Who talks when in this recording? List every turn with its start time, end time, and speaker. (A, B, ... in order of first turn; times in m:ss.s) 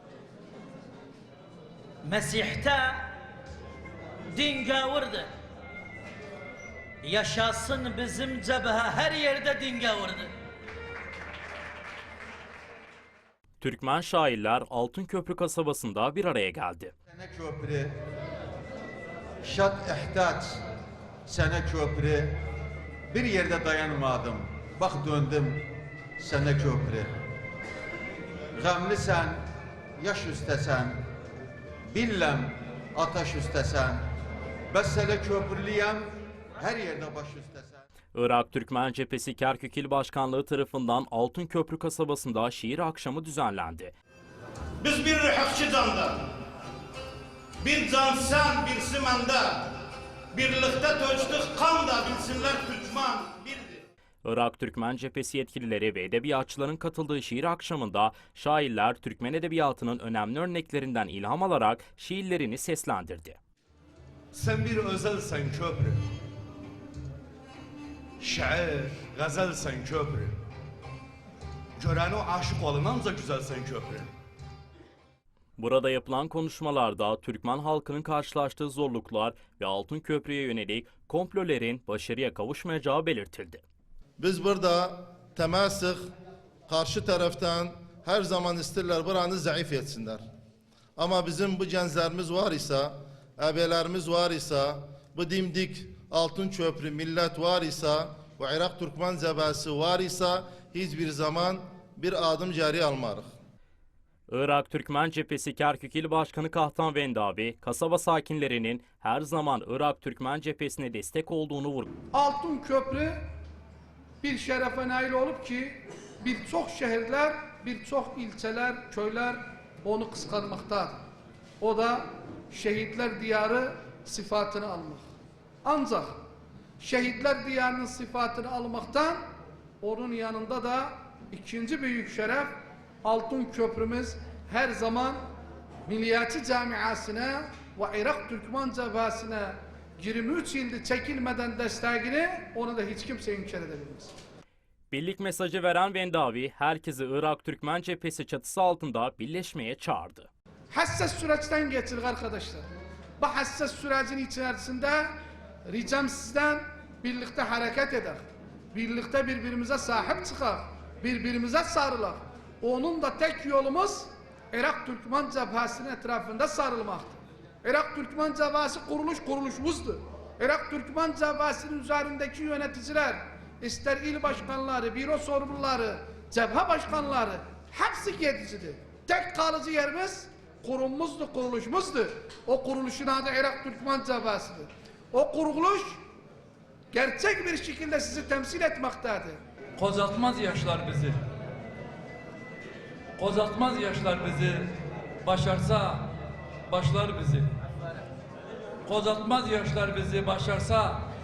0:02.0-0:03.1 A
0:04.3-0:05.3 A
0:07.0-0:10.3 A
0:13.6-0:16.9 B
0:17.1-0:18.0 C
0:19.4-0:20.6 C
0:21.3-0:22.4 C
0:23.1-0:25.7 C
0:26.2-0:27.1 C
0:28.6-0:29.4 C
0:30.0-0:31.0 C
0:31.9-0:34.0 C
0:34.7-0:37.8 C
0:38.1-0:43.9 B
0:44.8-0:46.3 D
0:47.6-0:49.8 D
0:50.3-0:53.8 D
0:54.2-1:03.4 B
1:04.3-1:06.0 E
1:08.2-1:10.3 E
1:11.8-1:14.1 E
1:15.6-1:23.6 B
1:24.2-1:26.0 F
1:26.7-1:30.2 F
1:31.0-1:43.3 F
1:44.3-1:51.9 B
1:52.1-1:53.2 G
1:54.2-2:01.0 G
2:01.6-2:05.1 G
2:05.6-2:06.2 G
2:06.8-2:09.2 G
2:09.8-2:15.2 G
2:15.9-2:24.1 G
2:24.9-2:30.3 B
2:30.7-2:32.7 G
2:33.2-2:35.1 G
2:35.7-3:06.0 G
3:06.9-3:09.4 G
3:09.8-3:11.2 H
3:13.2-3:14.7 H
3:15.2-3:16.1 H
3:16.7-3:17.5 H
3:18.9-3:21.1 H